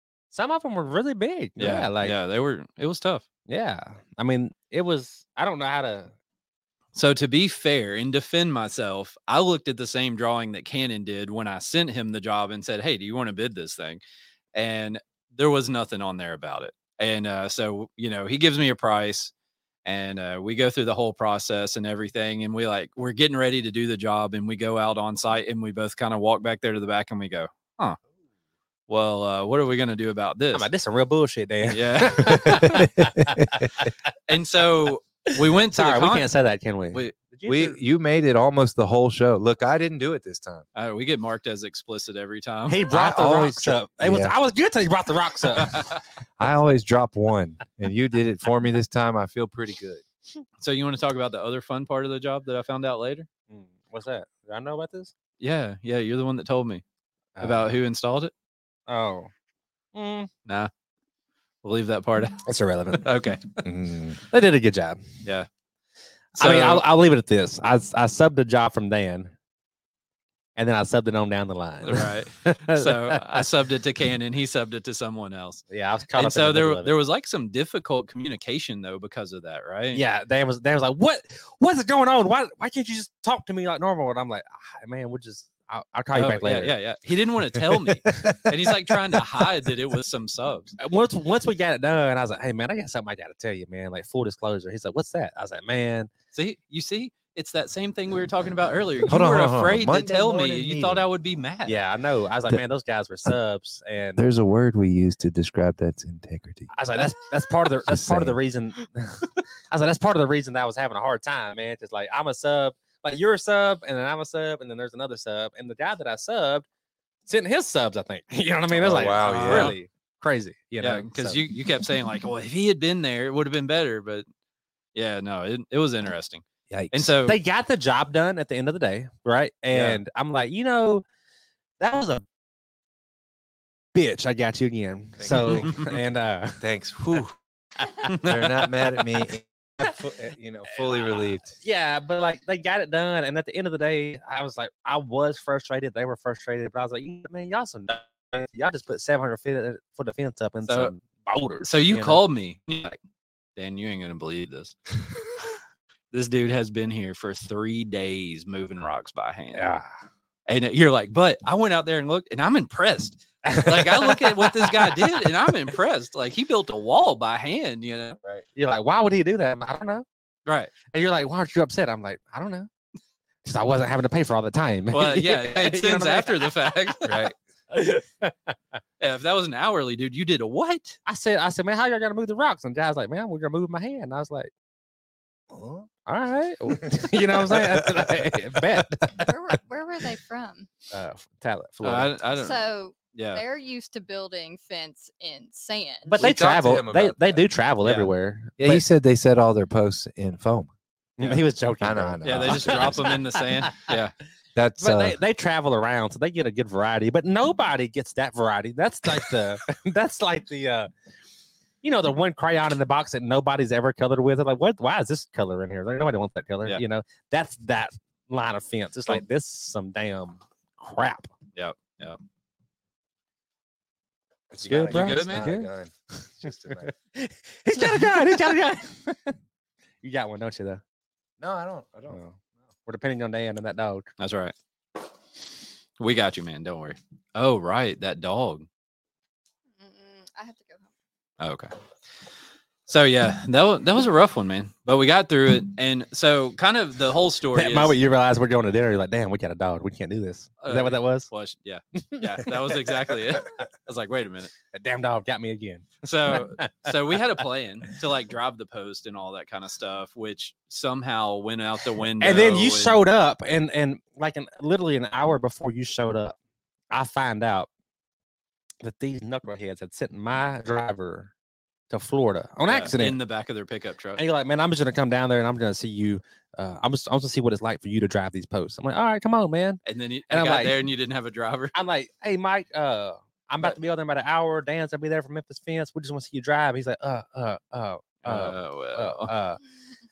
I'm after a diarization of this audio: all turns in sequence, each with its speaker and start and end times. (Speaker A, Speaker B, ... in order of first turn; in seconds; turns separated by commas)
Speaker A: 0.3-2.1, Speaker B: 1.6-3.2, Speaker A: 3.5-6.1, Speaker B: 6.9-14.0, Speaker B: 14.5-19.3, Speaker B: 19.8-28.0, Speaker B: 28.9-30.7, Speaker A: 30.5-33.9, Speaker B: 31.6-32.8, Speaker C: 32.2-33.6, Speaker B: 34.3-36.3, Speaker A: 35.2-37.8, Speaker C: 37.5-40.6, Speaker B: 40.7-42.8, Speaker A: 42.7-45.9, Speaker C: 42.9-44.3, Speaker B: 45.5-46.0, Speaker C: 46.4-50.0, Speaker B: 50.6-53.3, Speaker A: 53.5-55.1, Speaker B: 55.4-56.8, Speaker A: 57.4-57.7, Speaker B: 57.4-58.3, Speaker A: 58.9-59.3, Speaker A: 59.9-60.3, Speaker B: 61.6-62.4, Speaker A: 62.4-63.1, Speaker B: 62.9-63.6, Speaker C: 63.6-64.2, Speaker A: 64.3-65.0, Speaker A: 66.3-69.3, Speaker B: 66.4-66.8, Speaker A: 70.5-73.5, Speaker B: 71.8-75.6, Speaker A: 75.7-76.9, Speaker B: 76.1-80.0, Speaker A: 79.9-86.7, Speaker B: 86.1-90.7, Speaker A: 88.1-88.4, Speaker A: 90.8-96.1, Speaker B: 96.3-101.8, Speaker C: 99.0-101.1, Speaker A: 101.7-104.2, Speaker C: 104.2-106.7, Speaker A: 106.7-116.7, Speaker C: 107.9-108.3, Speaker A: 117.2-121.4, Speaker C: 118.7-119.7, Speaker B: 119.2-119.8, Speaker B: 120.8-124.2, Speaker B: 124.9-127.4, Speaker C: 126.7-127.0, Speaker A: 127.2-131.0, Speaker A: 131.8-132.2, Speaker A: 133.9-136.6, Speaker C: 135.2-136.0, Speaker B: 135.3-135.9, Speaker C: 136.6-137.3, Speaker B: 138.0-138.5, Speaker C: 138.1-141.5, Speaker A: 140.8-152.2, Speaker B: 150.7-150.9, Speaker B: 151.6-153.0, Speaker B: 153.6-154.8, Speaker B: 156.1-159.7, Speaker A: 159.5-159.9, Speaker B: 160.5-168.4, Speaker A: 163.4-165.3, Speaker A: 168.5-170.0, Speaker B: 170.4-170.7, Speaker A: 170.9-172.7, Speaker A: 173.4-176.7, Speaker B: 174.9-177.3, Speaker C: 177.0-177.3, Speaker A: 177.7-178.5, Speaker B: 179.0-181.0, Speaker A: 181.1-184.5, Speaker C: 185.5-185.9, Speaker A: 186.1-189.3, Speaker C: 186.8-188.2, Speaker D: 189.2-190.7, Speaker A: 190.9-192.2, Speaker B: 191.8-193.4, Speaker D: 192.3-196.3, Speaker A: 196.1-198.8, Speaker C: 196.1-197.4, Speaker B: 197.8-198.1, Speaker C: 198.6-200.7, Speaker A: 201.2-203.9, Speaker C: 201.8-203.2, Speaker B: 202.2-204.1, Speaker C: 204.6-205.2, Speaker A: 204.8-210.9, Speaker A: 211.8-221.3, Speaker B: 221.5-222.2, Speaker C: 224.5-226.9, Speaker A: 224.6-225.7, Speaker B: 224.8-225.6, Speaker A: 226.4-229.3, Speaker A: 230.0-230.8, Speaker C: 231.4-232.2, Speaker A: 232.1-234.1, Speaker B: 234.2-234.5, Speaker B: 236.0-238.7, Speaker D: 239.8-240.9, Speaker B: 241.4-241.7, Speaker B: 242.9-247.9, Speaker A: 247.5-251.3, Speaker B: 250.6-254.5, Speaker A: 252.1-252.5, Speaker A: 254.7-256.9, Speaker B: 256.0-263.0, Speaker A: 262.2-266.4, Speaker A: 266.9-267.7, Speaker A: 268.8-271.3, Speaker A: 271.9-273.2, Speaker B: 272.7-274.2, Speaker A: 274.2-280.8, Speaker B: 279.8-281.7, Speaker A: 281.7-289.6, Speaker B: 288.2-289.3